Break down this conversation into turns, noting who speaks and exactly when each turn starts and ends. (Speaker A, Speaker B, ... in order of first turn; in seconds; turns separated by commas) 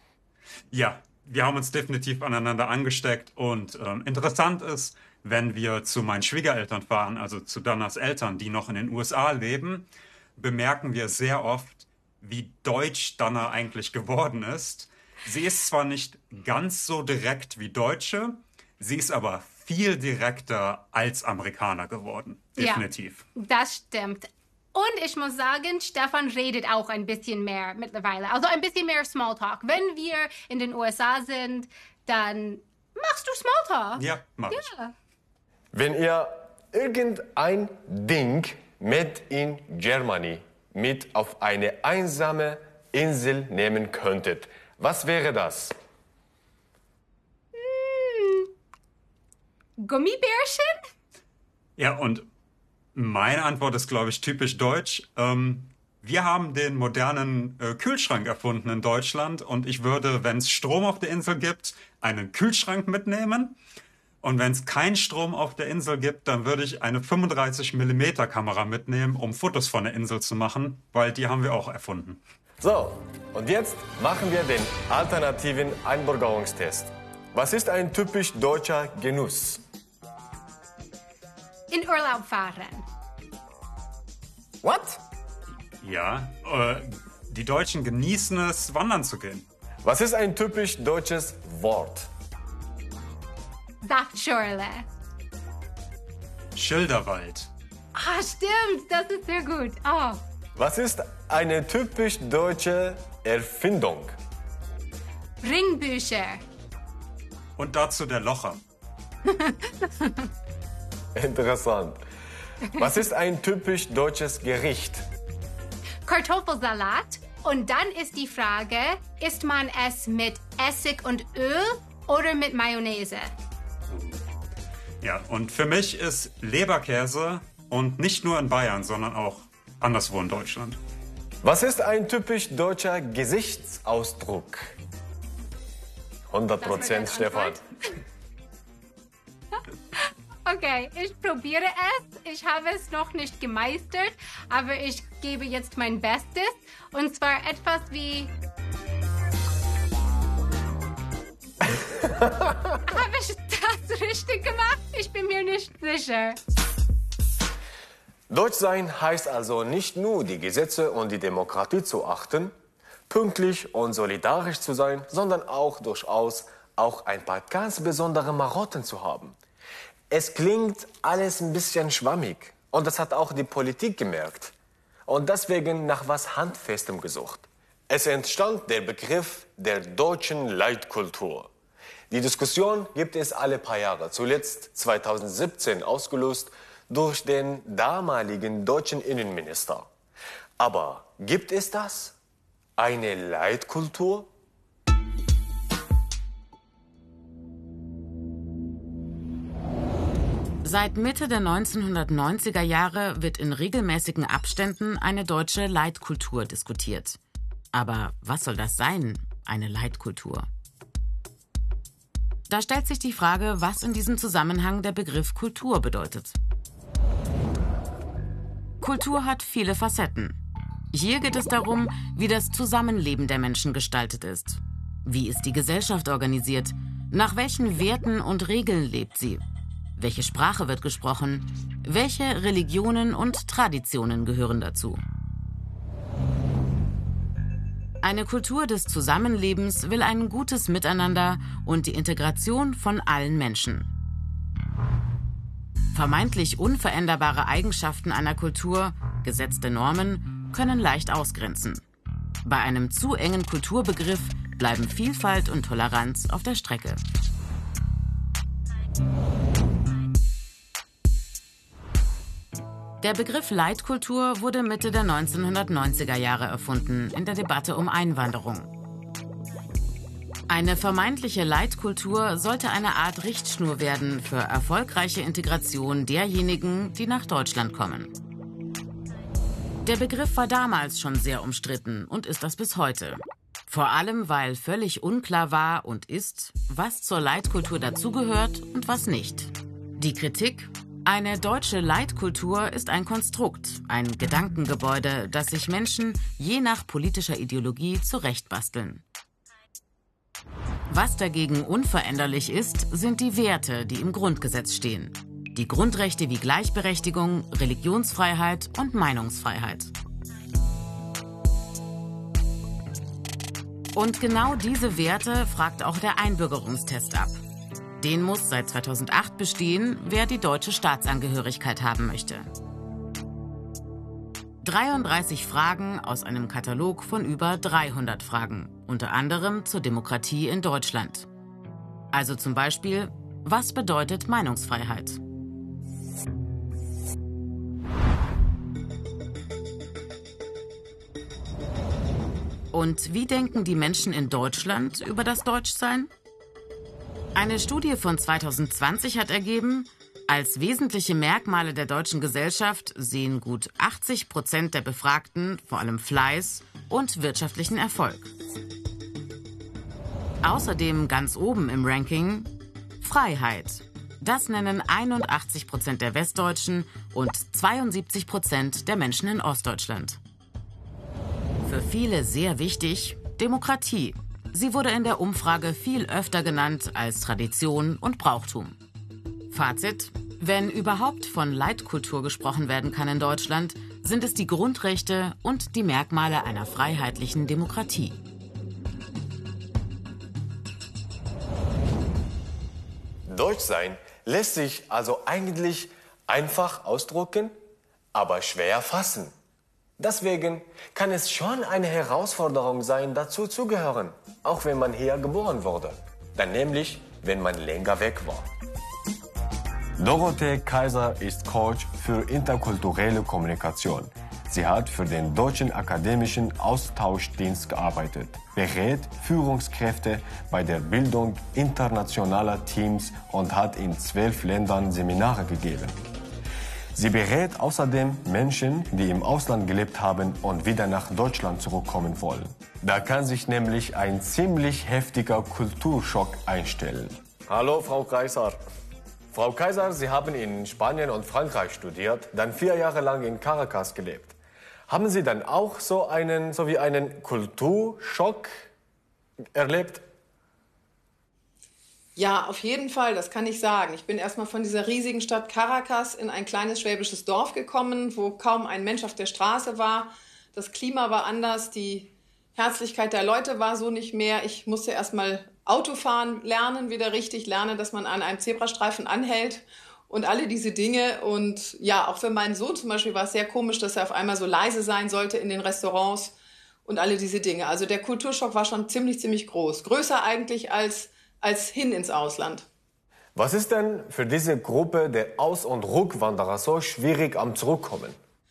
Speaker A: 0.7-23.2, Speaker B: 22.6-22.9, Speaker B: 23.4-34.9, Speaker A: 34.0-34.7, Speaker C: 35.7-45.7, Speaker B: 47.5-48.5, Speaker B: 49.8-50.8, Speaker A: 51.8-52.3, Speaker A: 53.0-63.6, Speaker A: 64.2-72.2, Speaker C: 72.6-79.6, Speaker B: 81.7-82.9, Speaker C: 84.6-85.0, Speaker A: 85.8-89.5, Speaker C: 89.8-92.1, Speaker B: 93.8-94.9, Speaker A: 96.6-97.5, Speaker B: 98.0-100.2, Speaker C: 100.6-104.2, Speaker B: 105.4-106.4, Speaker A: 107.6-108.6, Speaker B: 109.3-110.3, Speaker C: 111.1-112.0, Speaker C: 112.7-115.1, Speaker B: 116.1-123.3, Speaker A: 125.0-130.8, Speaker C: 131.4-134.8, Speaker C: 136.3-137.6, Speaker B: 136.6-137.9, Speaker B: 139.5-148.3, Speaker C: 152.1-152.6, Speaker B: 152.8-156.4, Speaker C: 158.3-162.5, Speaker C: 163.1-169.4, Speaker C: 170.1-174.6, Speaker C: 175.1-181.5, Speaker C: 182.1-189.9, Speaker C: 190.6-192.2, Speaker C: 192.8-194.3, Speaker D: 200.6-207.2, Speaker D: 207.7-210.5, Speaker D: 212.5-216.4, Speaker D: 218.8-220.4, Speaker D: 220.9-229.4, Speaker D: 230.0-235.0, Speaker D: 238.0-243.9, Speaker D: 245.9-251.8, Speaker D: 252.4-257.0, Speaker D: 263.0-268.7, Speaker D: 270.5-278.2, Speaker D: 279.8-299.0, Speaker D: 300.9-309.9, Speaker D: 313.9-317.4, Speaker D: 318.0-322.5, Speaker D: 324.6-331.3, Speaker D: 332.1-335.2, Speaker D: 342.7-346.1, Speaker D: 347.4-358.3, Speaker D: 360.4-370.2, Speaker D: 371.6-378.8, Speaker D: 379.5-388.2, Speaker C: 393.3-397.6, Speaker C: 398.1-399.3, Speaker C: 400.0-408.5, Speaker C: 410.0-426.0, Speaker C: 426.9-438.6, Speaker C: 439.3-444.4, Speaker C: 444.9-448.7, Speaker C: 449.6-450.1, Speaker E: 452.2-482.7, Speaker C: 483.4-488.2